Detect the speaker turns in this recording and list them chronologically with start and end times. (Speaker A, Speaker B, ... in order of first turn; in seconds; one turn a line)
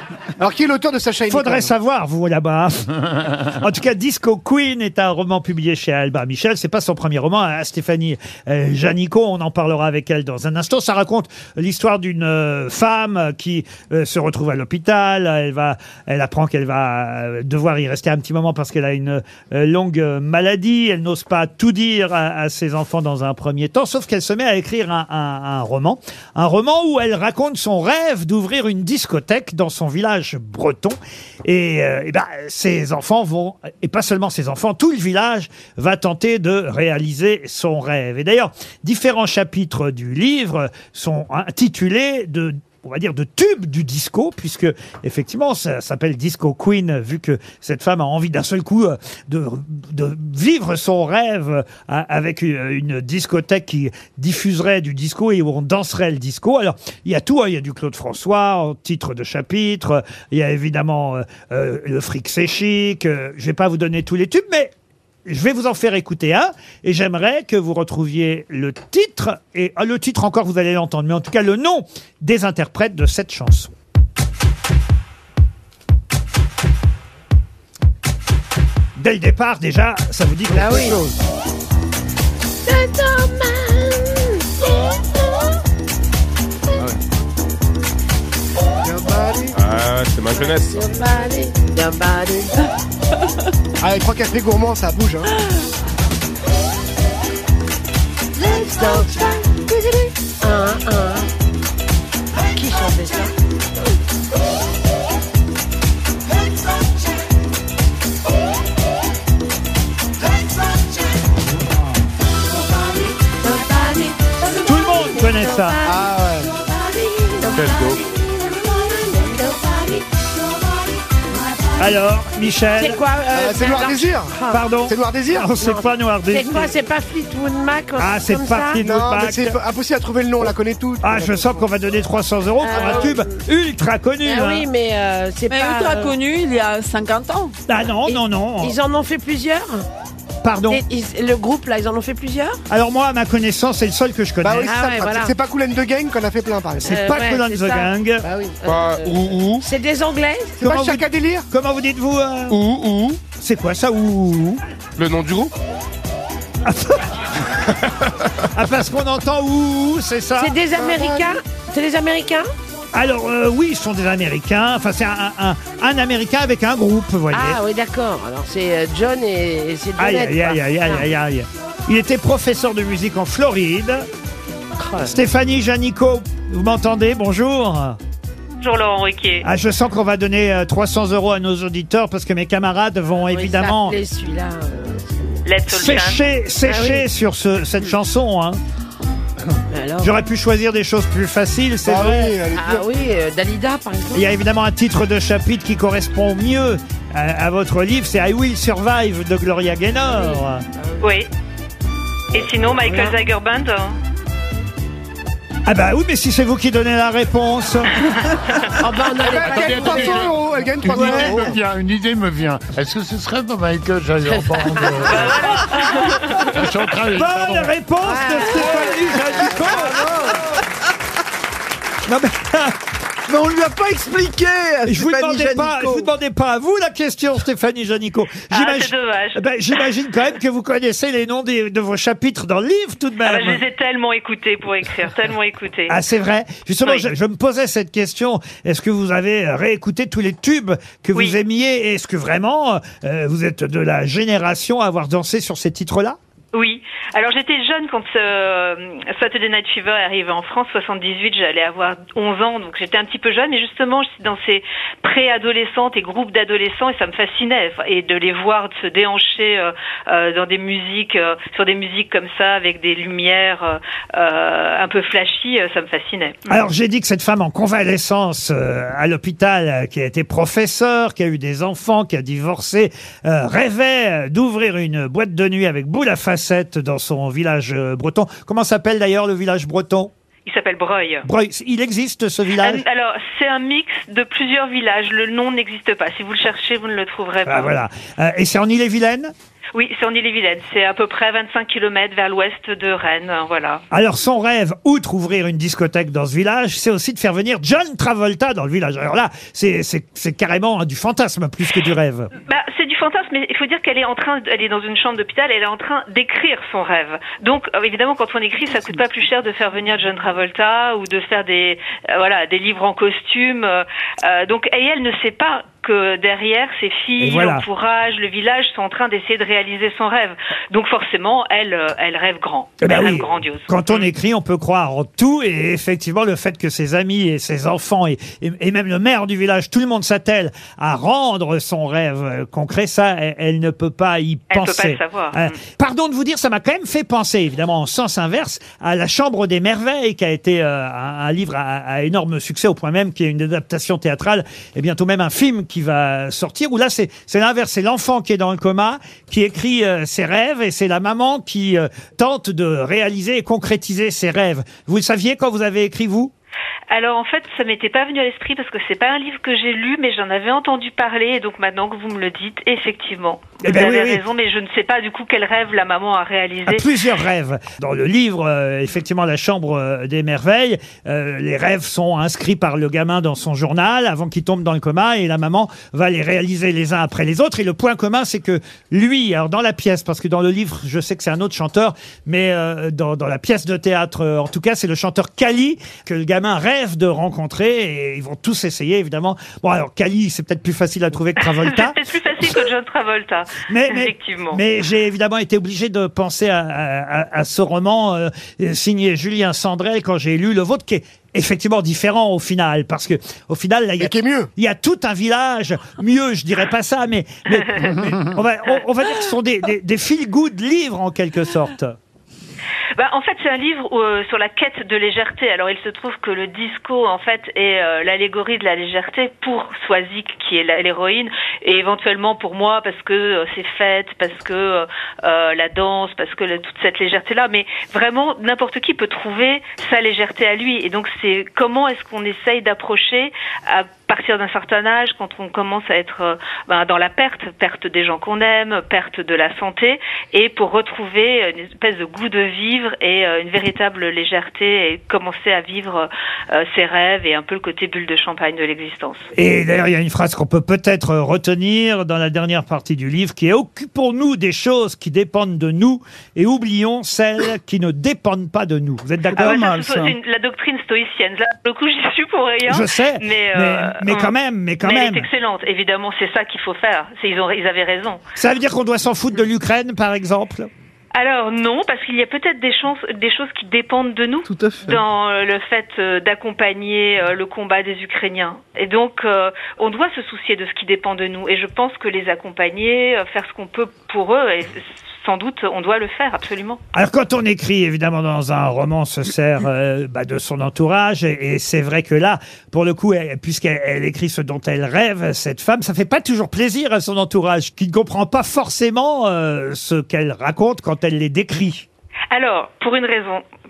Speaker A: 0.4-1.7
Speaker B: 1.3-64.7
Speaker B: 65.2-73.7
Speaker B: 79.0-81.0
Speaker C: 80.5-81.0
Speaker C: 82.7-85.5
Speaker A: 88.8-89.5
Speaker D: 89.5-90.8
Speaker C: 90.3-92.5
Speaker A: 93.8-95.3
Speaker C: 98.4-99.4
Speaker C: 100.4-101.3
Speaker C: 102.5-103.3
Speaker C: 113.4-116.0
Speaker B: 114.6-115.8
Speaker A: 115.8-116.5
Speaker C: 116.7-120.0
Speaker D: 117.5-118.0
Speaker B: 121.8-123.0
Speaker C: 122.8-124.6
Speaker A: 123.3-124.3
Speaker B: 124.5-126.7
Speaker A: 124.9-125.5
Speaker C: 125.6-128.8
Speaker B: 128.0-129.6
Speaker A: 128.8-131.5
Speaker B: 131.0-134.6
Speaker C: 132.6-133.4
Speaker C: 134.2-136.1
Speaker E: 135.5-137.5
Speaker B: 137.7-138.7
Speaker C: 138.1-139.8
Speaker B: 140.4-140.8
Speaker C: 140.7-142.6
Speaker B: 142.7-144.7
Speaker A: 144.4-146.9
Speaker C: 144.7-145.3
Speaker B: 146.8-148.2
Speaker C: 146.8-150.6
Speaker D: 148.7-149.7
Speaker A: 150.6-151.4
Speaker B: 150.6-152.6
Speaker D: 152.5-153.2
Speaker B: 153.3-154.6
Speaker D: 155.0-155.5
Speaker B: 156.7-157.1
Speaker B: 158.5-160.5
Speaker C: 160.4-162.5
Speaker A: 160.7-161.4
Speaker B: 162.9-167.6
Speaker C: 167.3-171.1
Speaker B: 170.0-174.1
Speaker C: 174.8-175.1
Speaker B: 175.0-178.0
Speaker F: 178.6-179.4
Speaker B: 179.4-184.0
Speaker C: 183.3-185.4
Speaker F: 185.4-186.2
Speaker B: 185.7-188.6
Speaker C: 186.7-187.1
Speaker C: 189.7-190.1
Speaker B: 190.0-192.3
Speaker A: 191.8-192.8
Speaker C: 192.5-194.3
Speaker B: 194.1-200.6
Speaker C: 200.1-200.4
Speaker F: 201.0-201.3
Speaker F: 202.3-203.9
Speaker B: 205.7-208.0
Speaker C: 208.8-210.3
Speaker A: 209.2-211.6
Speaker G: 209.3-215.4
Speaker B: 210.9-211.3
Speaker C: 214.2-215.3
Speaker F: 215.1-216.5
Speaker G: 216.5-217.7
Speaker B: 217.1-220.0
Speaker C: 218.0-220.6
Speaker B: 222.1-222.8
Speaker H: 223.3-226.1
Speaker B: 224.8-233.6
Speaker F: 228.5-229.8
Speaker F: 233.2-236.0
Speaker B: 235.9-246.2
Speaker F: 236.8-237.1
Speaker F: 246.5-266.5
Speaker B: 266.5-280.1
Speaker F: 280.4-281.3
Speaker B: 281.2-282.8
Speaker F: 282.6-287.8
Speaker B: 287.4-289.3
Speaker F: 289.7-293.8
Speaker B: 293.9-302.3
Speaker F: 302.4-324.1
Speaker B: 317.2-317.6
Speaker B: 322.8-356.3
Speaker F: 334.5-335.6
Speaker F: 356.9-366.9
Speaker B: 363.6-364.2
Speaker B: 366.7-391.9
Speaker F: 391.4-394.6
Speaker B: 393.7-411.9
Speaker A: 404.0-404.5
Speaker F: 407.5-407.9
Speaker F: 412.9-449.2
Speaker B: 449.3-459.6
Speaker H: 459.3-460.2
Speaker F: 459.4-468.2
Speaker B: 462.7-465.2
Speaker B: 468.4-470.7
Speaker F: 471.1-486.8
Speaker H: 474.4-475.0
Speaker B: 486.9-501.9
Speaker F: 502.3-503.4